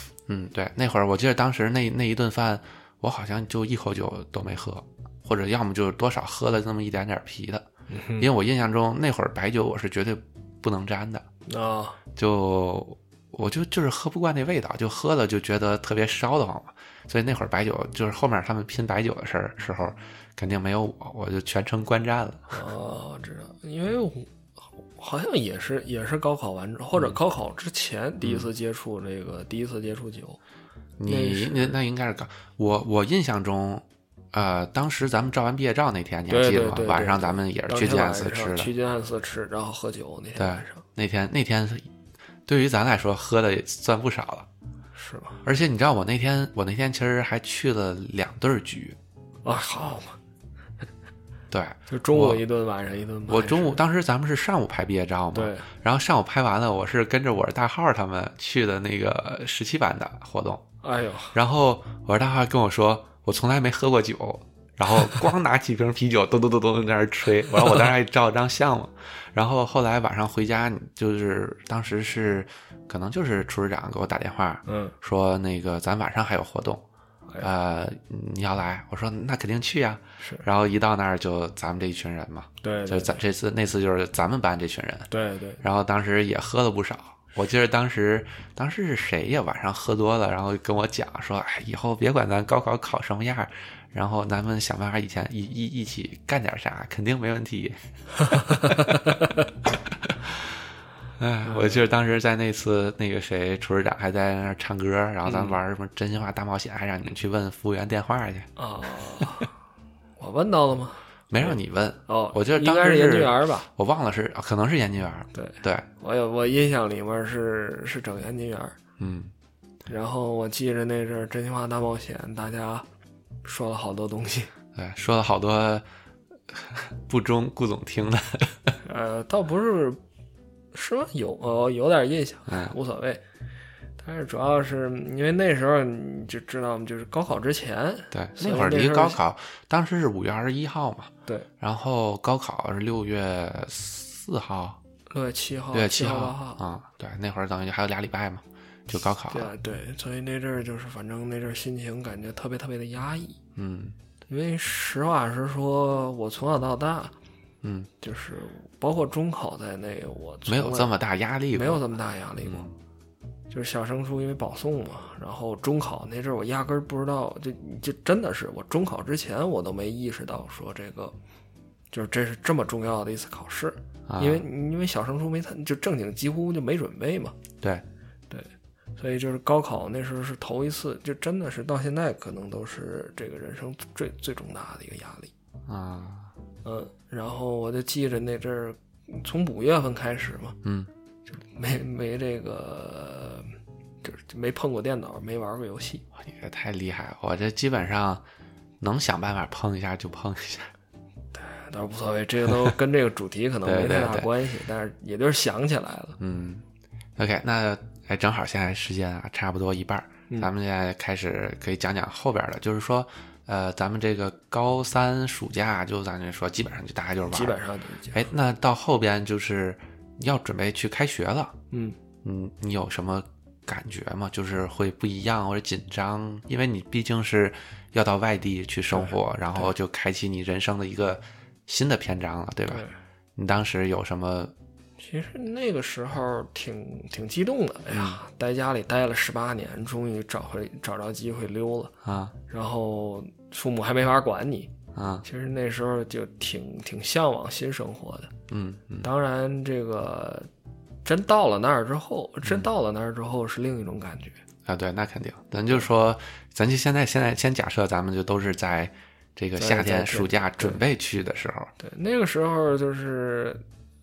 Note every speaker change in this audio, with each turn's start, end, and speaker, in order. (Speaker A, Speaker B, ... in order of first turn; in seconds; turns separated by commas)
Speaker A: 0.3-7.7, Speaker B: 7.9-8.3, Speaker A: 8.2-11.2, Speaker B: 11.5-12.0, Speaker A: 12.2-22.6, Speaker B: 22.5-30.4, Speaker A: 28.2-28.5, Speaker A: 31.0-38.7, Speaker B: 31.1-31.7, Speaker B: 36.3-40.8, Speaker A: 40.4-41.9, Speaker A: 42.5-44.5, Speaker B: 44.9-45.4, Speaker A: 45.4-49.0, Speaker B: 49.4-50.2, Speaker A: 51.5-52.4, Speaker B: 51.9-53.8, Speaker A: 53.3-60.6, Speaker B: 55.3-55.7, Speaker B: 60.8-61.4, Speaker A: 61.3-76.8, Speaker B: 74.7-74.9, Speaker A: 77.4-85.1, Speaker B: 80.2-80.5, Speaker B: 82.6-83.2, Speaker B: 85.1-85.6, Speaker A: 85.6-97.8, Speaker A: 98.3-100.6, Speaker B: 98.3-99.2, Speaker A: 101.2-108.5, Speaker B: 101.4-101.8, Speaker B: 105.2-105.6, Speaker B: 108.6-109.5, Speaker B: 110.2-113.7, Speaker A: 111.3-115.9, Speaker B: 115.3-118.8, Speaker A: 119.0-119.3, Speaker B: 119.9-122.8, Speaker B: 123.4-124.5, Speaker A: 124.7-125.8, Speaker A: 126.5-128.8, Speaker B: 128.8-130.0, Speaker B: 130.7-133.2, Speaker A: 132.5-132.7, Speaker B: 134.0-139.2, Speaker A: 138.1-144.8, Speaker B: 145.1-146.6, Speaker A: 145.7-149.5, Speaker B: 149.3-153.4, Speaker A: 153.6-153.9, Speaker B: 154.3-157.1, Speaker A: 157.6-157.9, Speaker B: 158.0-160.9, Speaker A: 160.5-161.8, Speaker B: 161.5-162.7, Speaker A: 162.4-162.7, Speaker B: 163.5-171.1, Speaker B: 171.9-177.3, Speaker A: 174.1-174.4, Speaker B: 178.3-185.3, Speaker A: 185.7-186.3, Speaker B: 186.6-190.6, Speaker A: 190.6-190.9, Speaker B: 191.4-193.5, Speaker B: 194.0-196.0, Speaker A: 196.1-198.2, Speaker A: 198.8-200.7, Speaker B: 201.3-206.2, Speaker A: 203.6-204.3, Speaker A: 206.2-206.6, Speaker A: 207.2-217.6, Speaker B: 217.3-218.2, Speaker A: 218.1-221.6, Speaker B: 221.7-222.0, Speaker A: 222.2-232.8, Speaker B: 228.9-229.7, Speaker B: 232.7-232.9, Speaker A: 233.3-234.5, Speaker B: 235.0-241.9, Speaker A: 237.9-238.2, Speaker A: 242.0-242.3, Speaker B: 242.5-244.7, Speaker A: 244.9-245.2, Speaker B: 245.2-248.3, Speaker A: 248.5-249.1, Speaker B: 249.0-250.5, Speaker B: 251.0-254.4, Speaker A: 254.7-261.7, Speaker B: 259.6-260.8, Speaker B: 261.8-263.6